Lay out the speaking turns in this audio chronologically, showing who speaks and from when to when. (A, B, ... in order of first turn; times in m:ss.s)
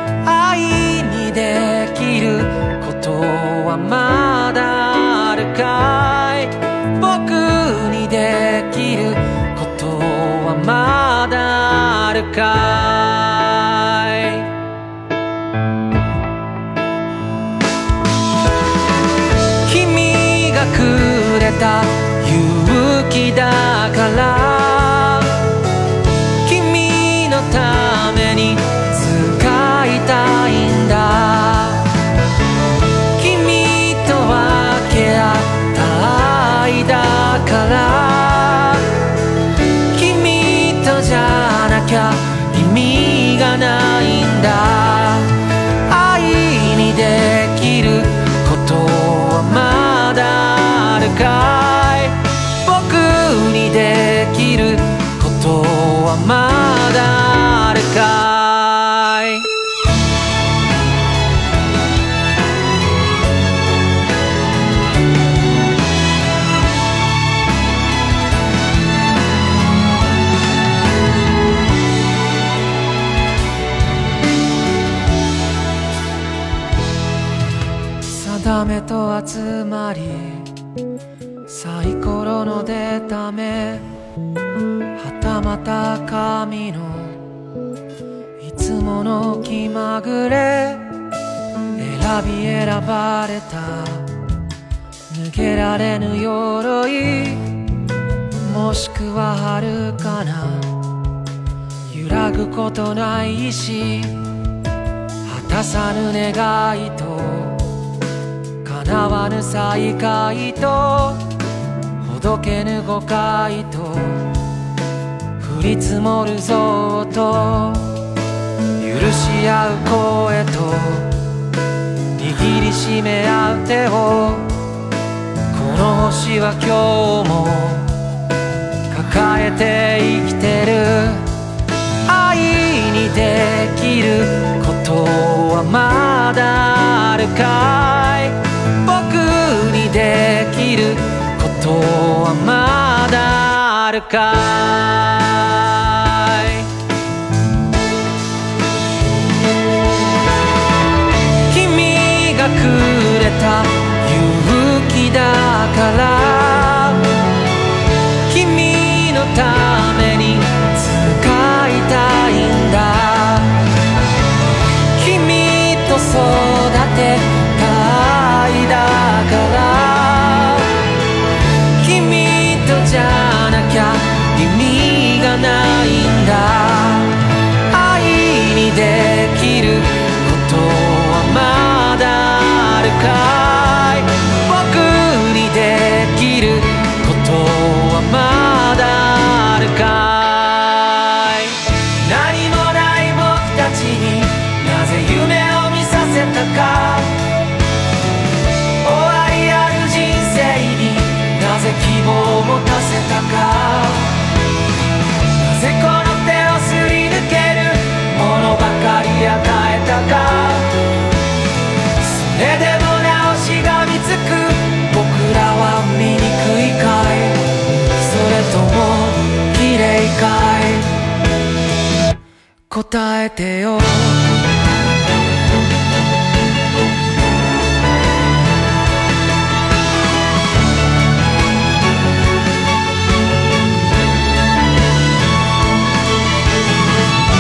0:00.2-0:14.5 A
0:19.6-0:25.5 A
0:26.4-0:32.0 A
0:33.2-0:39.0 A
0:39.9-0:59.5 A
1:18.0-1:20.5 A
1:21.5-1:23.9 A
1:25.0-1:27.2 A
1:28.4-1:30.9 A
1:31.8-1:34.1 A
1:35.1-1:37.7 A
1:38.4-1:40.7 A
1:41.9-1:44.2 A
1:45.2-1:47.7 A
1:48.6-1:51.3 A
1:52.0-1:54.4 A
1:55.4-1:58.0 A
1:58.8-2:01.2 A
2:02.2-2:04.5 A
2:05.5-2:07.9 A
2:08.9-2:11.2 A
2:12.1-2:26.7 A
2:31.5-2:37.2 A
2:38.3-2:43.7 A
2:45.0-2:50.8 A
2:51.8-3:17.2 A
3:18.8-3:24.2 A
3:25.4-3:30.8 A
3:32.0-3:37.4 A
3:38.0-3:41.0 A
3:42.7-3:44.3 A